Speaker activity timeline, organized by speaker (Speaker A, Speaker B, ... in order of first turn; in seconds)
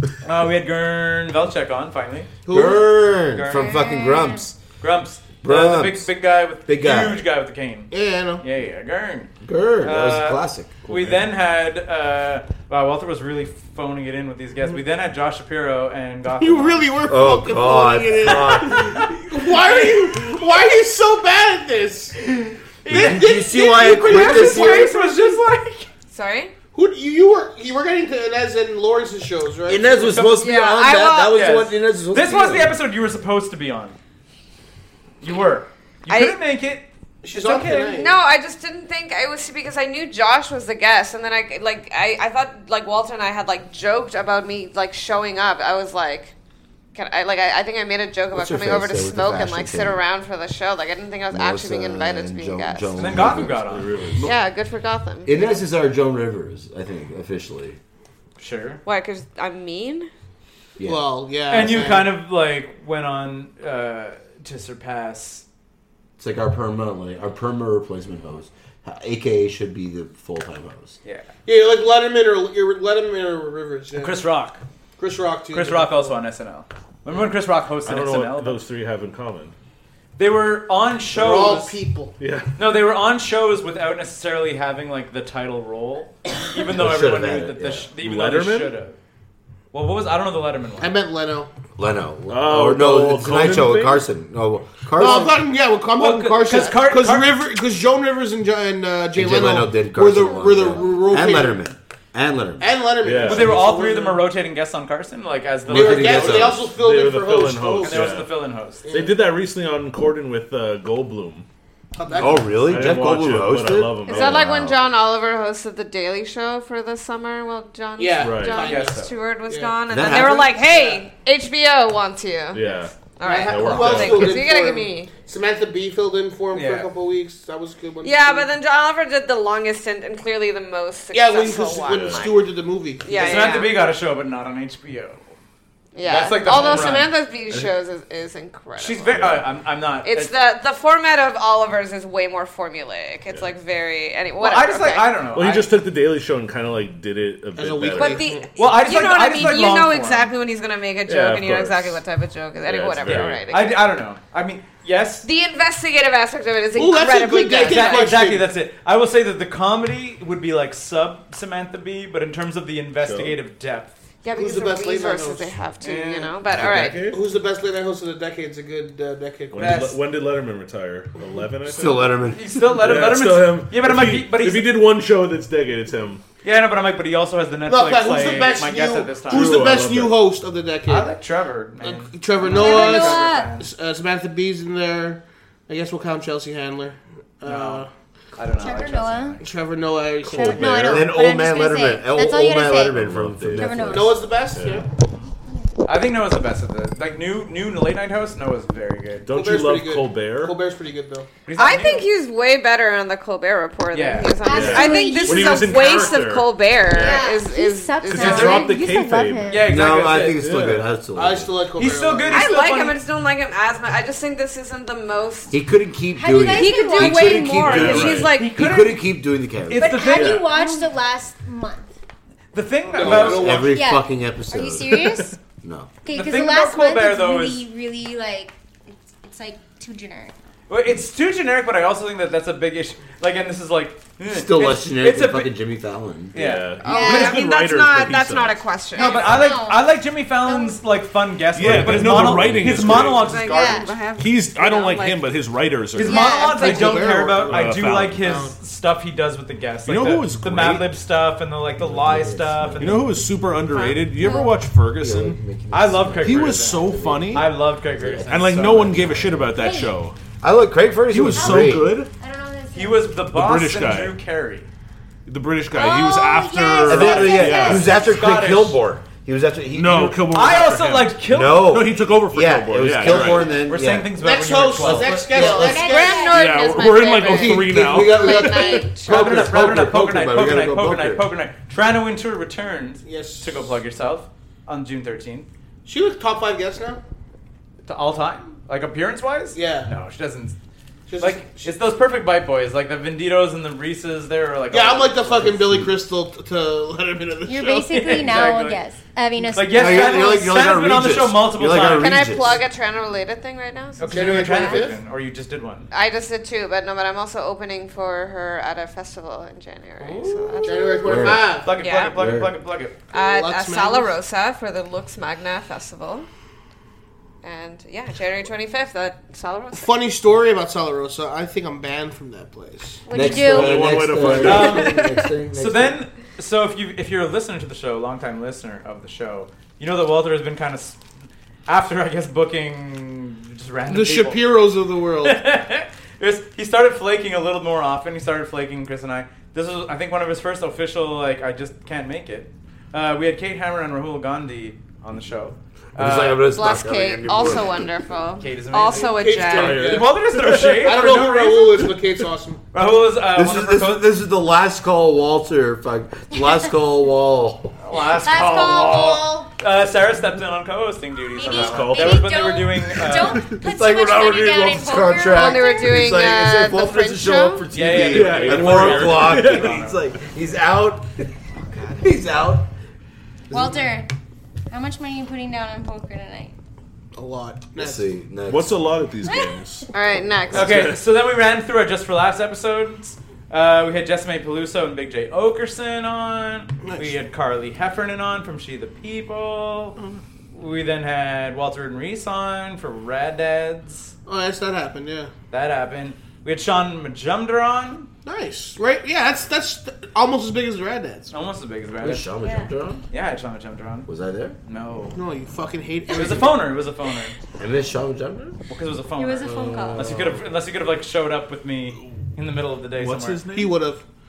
Speaker A: 0.2-2.3, 3.3-3.8, 4.8-9.3, 9.8-16.9, 18.3-20.4, 22.8-25.9, 30.1-30.4, 31.3-34.0, 35.2-38.1, 53.0-54.0, 58.4-58.8, 61.5-65.4, 74.0-74.6, 75.5-78.6, 80.2-81.7, 82.6-89.0, 89.7-91.0, 96.0-97.3, 103.2-106.4, 107.8-108.8, 118.6-119.1, 126.5-126.9, 133.1-135.2, 136.1-137.1, 138.8-140.3, 144.4-145.7, 148.6-150.3, 153.1-155.3, 157.7-164.0, 165.8-166.4, 169.6-170.0, 172.3-174.8, 176.4-179.7, 180.9-183.7, 187.4-189.5, 195.8-199.3, 201.5-202.1, 203.9-204.5, 209.5-210.5, 211.8-213.0, 218.2-219.1, 219.7-220.5, 222.5-223.6, 226.1-227.6, 230.7-235.5, 236.3-236.8, 239.0-243.8, 245.9-253.1, 255.7-258.9, 262.7-264.7, 267.3-268.8, 270.3-271.7, 273.6-275.3, 279.1-285.5, 287.9-290.6, 291.2-295.5, 297.9-298.8, 299.5-302.3, 304.0-305.9, 311.6-313.0, 324.4-331.0, 331.7-334.4, 335.2-346.5, 348.4-349.2, 349.7-351.9, 352.7-354.1, 357.8-363.4, 367.7-370.0, 380.5-390.0, 390.5-394.1, 395.5-398.1, 401.3-402.3, 403.1-404.1, 404.6-405.2, 406.1-407.4, 408.7-413.4
Speaker B: 2.5-2.9, 7.9-8.4, 16.4-22.2, 22.9-24.9, 26.7-30.2, 37.2-38.2, 60.8-62.1, 71.5-74.2, 75.0-76.2, 81.1-82.2, 90.8-91.5, 94.9-101.7, 102.6-104.3, 105.7-108.2, 108.8-109.2, 112.0-112.9, 118.0-121.0, 123.2-128.5, 131.1-133.5, 147.6-148.5, 156.8-158.5, 164.3-165.6, 167.0-169.9, 177.7-181.1, 181.8-187.9, 189.4-191.0, 193.9-194.9, 199.3-201.3, 211.1-212.5, 222.9-223.8, 246.5-248.6, 274.1-276.3, 283.1-283.6, 285.9-287.0, 289.5-289.9, 291.1-291.7, 294.7-298.1, 304.1-305.0, 310.6-311.7, 313.1-314.1, 319.7-323.1, 333.9-335.4, 348.9-352.6, 377.1-378.1, 386.8-387.2, 394.3-395.3, 398.2-401.3, 405.1-406.6, 413.5-414.0
Speaker C: 2.5-4.6, 5.4-6.1, 6.7-7.2, 9.4-10.8, 17.1-19.0, 22.9-24.9, 29.7-32.8, 48.3-50.0, 51.3-54.3, 55.2-57.8, 60.8-61.1, 66.2-71.0, 86.7-87.9, 91.8-95.4, 99.1-102.7, 105.7-106.7, 112.2-114.8, 119.9-120.5, 171.7-172.4, 190.7-194.2, 209.7-211.6, 215.5-219.9, 223.0-225.9, 234.3-236.3, 241.7-242.7, 251.8-253.1, 255.0-259.6, 260.4-261.9, 266.8-270.3, 271.3-274.1, 274.8-276.0, 277.2-281.2, 295.5-295.9, 299.7-302.6, 311.0-312.5, 323.1-326.0, 345.9-347.9, 353.3-357.8, 363.5-372.7, 373.5-373.9, 377.8-378.8, 402.0-403.0, 404.1-404.6, 407.6-408.6, 409.4-410.4
Speaker D: 3.5-4.5, 182.5-183.5, 188.6-189.4, 190.3-193.0, 193.6-194.3, 204.4-206.1, 206.9-209.7, 216.2-217.5, 219.7-221.9, 223.7-225.4, 226.0-228.6, 229.2-230.3, 236.9-237.4, 238.9-240.8, 243.5-243.9, 246.0-246.8, 254.2-254.6, 259.6-260.0, 261.3-263.1, 265.7-268.1, 275.5-276.5, 297.5-300.5, 323.1-323.9, 358.2-359.5, 361.4-366.1, 373.5-374.1, 374.7-376.5, 379.3-379.7, 402.4-402.7, 409.2-410.1
Speaker E: 10.9-11.2, 53.1-54.3, 77.8-79.5, 82.2-82.5, 88.0-88.8, 92.3-94.1, 103.0-103.7, 106.0-108.4, 108.9-111.5, 112.5-114.5, 118.2-118.6, 122.5-124.4, 131.9-132.3, 136.4-137.7, 139.1-139.4, 145.3-148.3, 151.1-152.0, 152.6-153.4, 163.0-163.4, 166.5-167.2, 169.5-176.2, 179.3-180.2, 190.3-191.1, 192.9-193.9, 194.5-194.8, 199.2-200.6, 204.5-207.3, 208.1-210.9, 217.3-218.3, 220.0-220.5, 225.0-225.3, 236.3-238.6, 241.5-248.5, 249.8-250.9, 252.8-255.4, 256.2-257.5, 258.3-260.2, 261.1-262.1, 263.3-264.2, 265.3-267.9, 269.7-273.6, 276.3-278.9, 323.2-324.9, 349.5-350.8, 361.4-363.2, 367.9-369.8, 378.5-379.9, 380.5-381.0, 413.0-413.8
Speaker F: 26.1-26.5, 30.4-31.4, 36.1-36.4, 38.0-46.3, 46.9-53.0, 54.2-55.6, 58.9-60.1, 114.1-125.1, 128.0-132.4, 133.1-133.8, 135.9-139.3, 140.0-145.1, 147.9-153.8, 155.2-158.1, 164.2-167.1, 201.6-208.8, 212.3-215.6, 216.5-218.6, 236.8-239.5, 242.9-245.3, 246.2-247.2, 253.7-254.0, 275.4-279.5, 302.0-304.7, 305.9-312.2, 313.1-316.3, 317.4-320.0, 346.5-350.0, 365.3-367.6, 379.9-380.9